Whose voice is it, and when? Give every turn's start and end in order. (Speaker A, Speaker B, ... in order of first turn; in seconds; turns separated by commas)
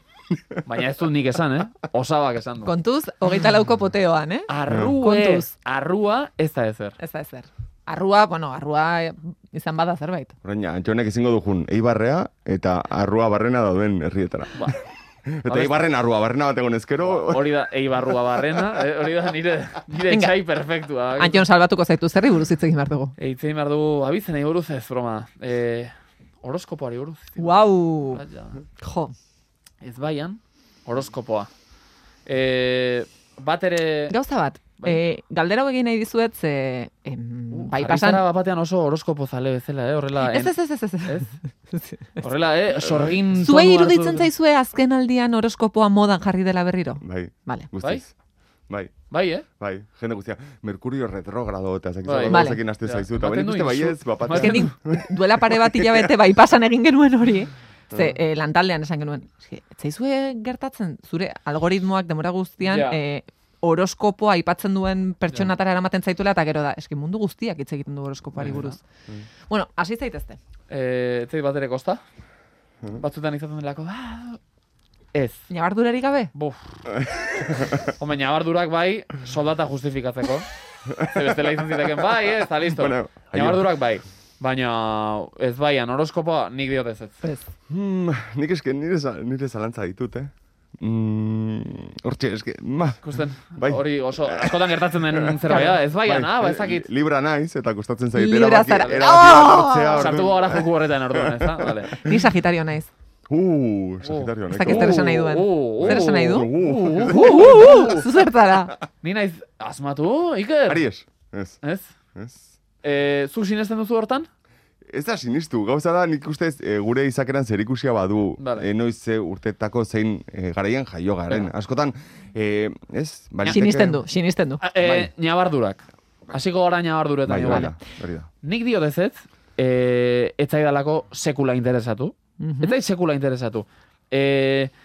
Speaker A: 0.3-0.6, Speaker B: 0.7-2.8, Speaker C: 2.6-5.5, Speaker B: 4.5-7.0, Speaker A: 4.7-5.0, Speaker C: 7.0-10.3, Speaker A: 10.4-17.6, Speaker B: 15.5-15.9, Speaker B: 17.0-21.5, Speaker C: 20.1-20.4, Speaker C: 21.2-23.1, Speaker B: 23.2-28.6, Speaker C: 27.4-28.2, Speaker C: 28.8-29.1, Speaker B: 29.8-31.5, Speaker B: 32.3-34.1, Speaker C: 34.1-38.2, Speaker B: 37.5-41.4, Speaker C: 40.1-42.3, Speaker B: 42.2-44.3, Speaker A: 42.9-43.2, Speaker C: 43.3-47.7, Speaker A: 47.0-48.1, Speaker B: 49.1-49.5, Speaker A: 49.6-56.1, Speaker B: 52.0-54.7, Speaker C: 52.3-52.6, Speaker C: 54.3-68.8, Speaker A: 57.9-58.2, Speaker B: 62.6-63.0, Speaker B: 68.4-68.8, Speaker C: 69.5-70.4, Speaker B: 70.7-72.0, Speaker B: 73.0-74.4, Speaker B: 75.1-75.5, Speaker C: 75.5-76.3, Speaker B: 76.3-76.8, Speaker A: 77.0-77.9, Speaker B: 77.8-87.2, Speaker A: 81.0-81.3, Speaker A: 82.4-83.7, Speaker C: 87.2-87.5, Speaker A: 87.7-102.2, Speaker B: 93.0-96.9, Speaker C: 95.5-95.8, Speaker C: 98.1-100.2, Speaker B: 98.7-99.2, Speaker B: 99.9-102.0, Speaker C: 101.9-102.9, Speaker A: 103.3-105.2, Speaker B: 104.0-108.1, Speaker C: 104.5-106.5, Speaker A: 105.8-107.9, Speaker C: 107.1-108.8, Speaker B: 109.0-110.8, Speaker A: 110.7-111.6, Speaker B: 111.6-111.9, Speaker A: 112.2-112.5, Speaker B: 112.8-114.3, Speaker A: 114.9-124.0, Speaker B: 118.4-118.7, Speaker C: 123.5-124.6, Speaker B: 124.6-127.7, Speaker A: 124.8-125.1, Speaker A: 127.3-128.3, Speaker C: 127.5-127.8, Speaker B: 128.4-134.7, Speaker C: 132.4-132.8